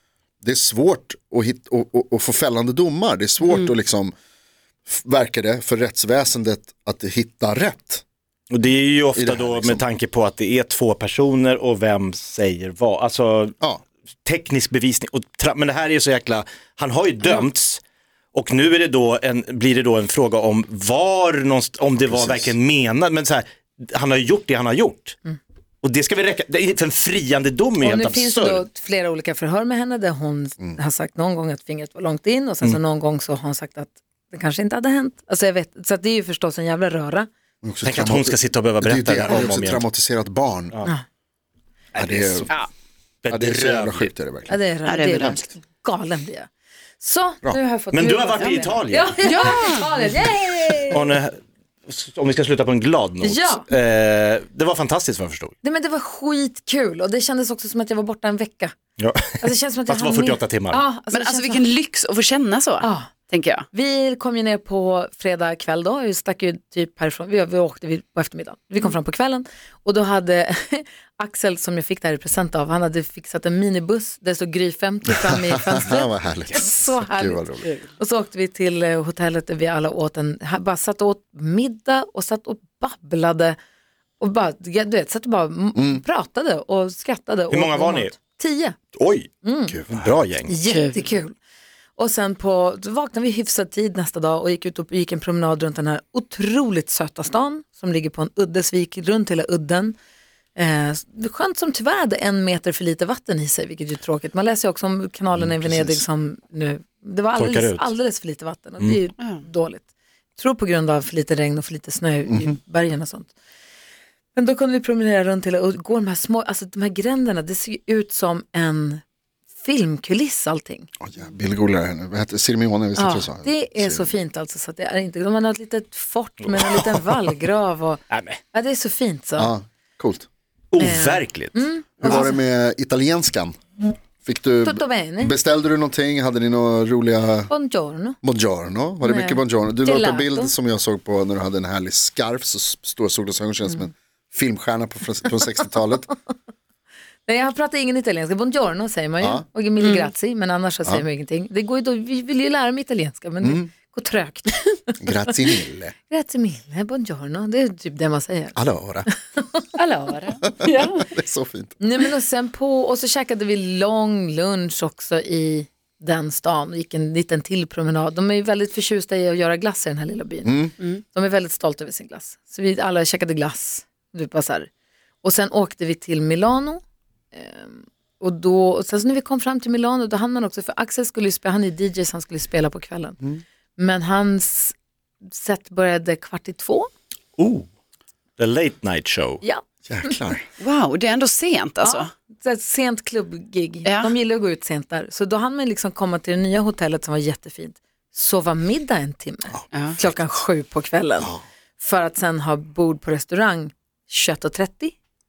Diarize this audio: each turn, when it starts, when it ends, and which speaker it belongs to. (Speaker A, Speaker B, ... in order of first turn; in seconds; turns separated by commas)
Speaker A: 0.4-4.1, Speaker A: 4.9-8.0, Speaker B: 8.5-13.6, Speaker A: 9.2-9.8, Speaker B: 14.2-17.8, Speaker B: 18.3-25.2, Speaker A: 22.0-22.6, Speaker B: 25.8-28.6, Speaker C: 27.8-37.3, Speaker A: 37.6-40.8, Speaker B: 37.9-39.9, Speaker B: 42.0-42.5, Speaker A: 42.0-42.5, Speaker B: 43.2-44.1, Speaker A: 43.3-44.6, Speaker C: 44.5-46.5, Speaker D: 44.9-45.4, Speaker C: 47.0-51.1, Speaker B: 47.9-49.2, Speaker D: 48.4-48.7, Speaker D: 49.2-49.8, Speaker B: 50.9-51.4, Speaker B: 51.9-55.5, Speaker C: 53.2-53.6, Speaker C: 55.6-58.8, Speaker B: 59.0-60.8, Speaker C: 59.4-61.6, Speaker D: 61.1-63.7, Speaker C: 62.8-63.1, Speaker C: 63.7-83.6, Speaker A: 75.4-77.7, Speaker C: 84.2-88.8, Speaker A: 85.8-86.0, Speaker B: 87.5-88.1, Speaker B: 88.9-89.3, Speaker C: 89.4-89.8, Speaker A: 89.7-90.2, Speaker B: 89.9-90.6, Speaker C: 90.5-91.3, Speaker D: 90.7-91.0, Speaker C: 92.0-100.0, Speaker C: 100.6-109.8, Speaker A: 105.3-106.0, Speaker B: 107.4-107.9, Speaker C: 110.4-113.3, Speaker A: 112.3-112.5, Speaker C: 114.3-119.0, Speaker C: 119.6-120.9, Speaker A: 121.0-124.1, Speaker C: 123.0-129.5, Speaker B: 126.4-127.0, Speaker B: 128.1-128.4, Speaker A: 129.4-130.3, Speaker B: 130.7-131.6, Speaker C: 130.8-132.4, Speaker A: 132.0-133.6, Speaker A: 134.2-137.5, Speaker C: 134.6-135.4, Speaker C: 137.5-138.2, Speaker A: 138.2-146.1, Speaker C: 139.0-140.5, Speaker C: 147.3-155.0, Speaker D: 149.8-150.1, Speaker A: 153.4-153.7, Speaker A: 155.0-155.9, Speaker C: 156.1-158.6, Speaker A: 158.6-159.1, Speaker C: 159.4-159.6, Speaker D: 159.8-161.1, Speaker A: 160.4-161.8, Speaker C: 161.8-174.7, Speaker A: 170.4-170.7, Speaker C: 175.2-176.8, Speaker C: 177.3-183.2, Speaker C: 183.8-186.9, Speaker B: 187.4-187.7, Speaker B: 188.4-189.4, Speaker C: 189.4-190.1, Speaker A: 189.9-190.5, Speaker D: 190.6-192.1, Speaker C: 191.8-204.9, Speaker D: 193.9-194.1, Speaker A: 199.5-200.2, Speaker D: 199.7-200.0